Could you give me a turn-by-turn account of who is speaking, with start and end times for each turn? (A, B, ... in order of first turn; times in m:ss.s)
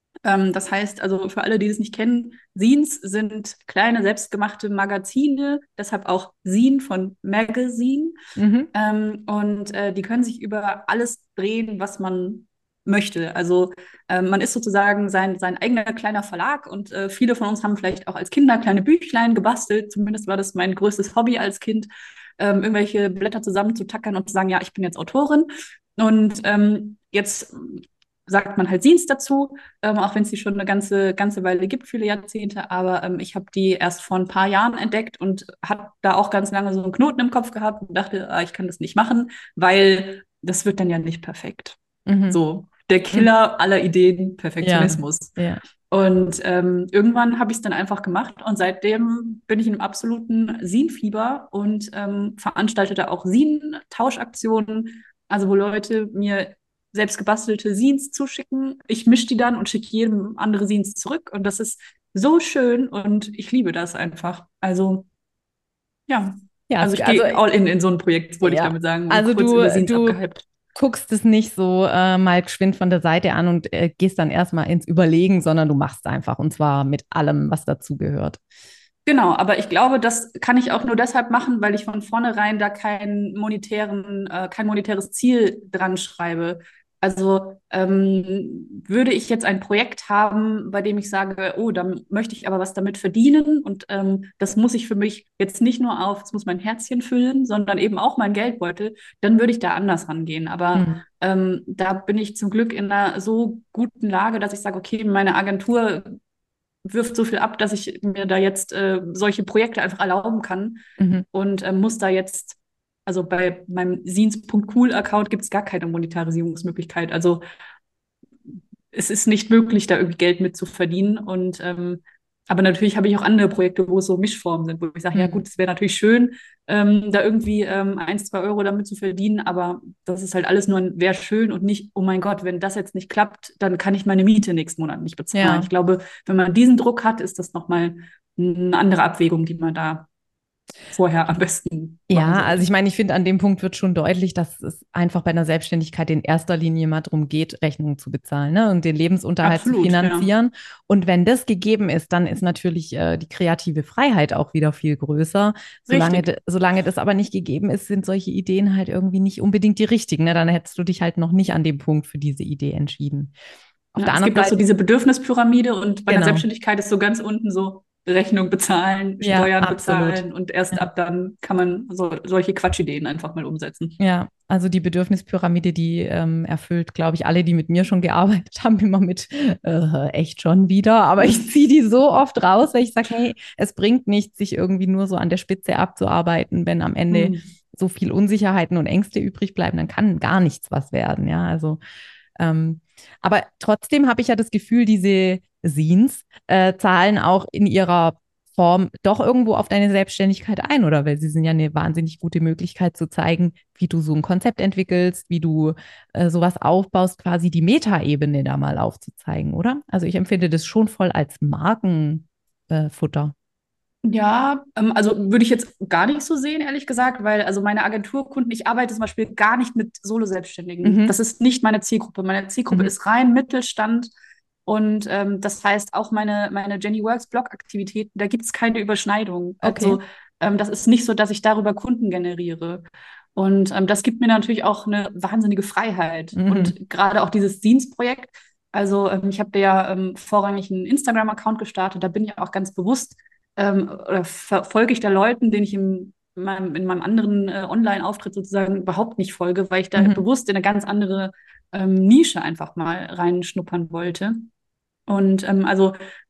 0:00.2-0:08.2 A
0:08.4-0:08.7 B
0:08.7-0:41.8 A
0:42.1-0:42.4 B
0:42.3-0:45.3 A
0:44.6-0:45.6 B
0:45.9-1:05.1 A
1:06.1-1:10.4 A
1:06.7-1:07.4 B
1:08.4-1:10.2 B
1:10.8-1:18.4 B
1:19.1-1:46.2 A
1:40.7-1:41.0 B
1:46.9-1:57.4 A
1:51.0-1:51.2 B
1:58.9-2:20.1 A
2:05.2-2:05.4 B
2:15.3-2:15.7 B
2:20.9-2:22.6 A
2:22.1-2:43.3 B
2:29.4-2:30.3 A
2:35.9-2:36.3 A
2:43.9-2:44.6 B
2:44.0-2:54.0 A
2:46.1-2:46.5 B
2:49.2-2:50.8 B
2:54.0-3:11.8 B
3:07.1-3:07.4 A
3:12.4-3:33.3 B
3:34.0-3:44.1 A
3:40.8-3:41.2 B
3:44.7-3:52.8 A
3:49.6-3:50.0 B
3:53.4-4:14.5 A
3:56.4-3:56.7 B
4:10.0-4:10.2 B
4:15.1-4:16.0 A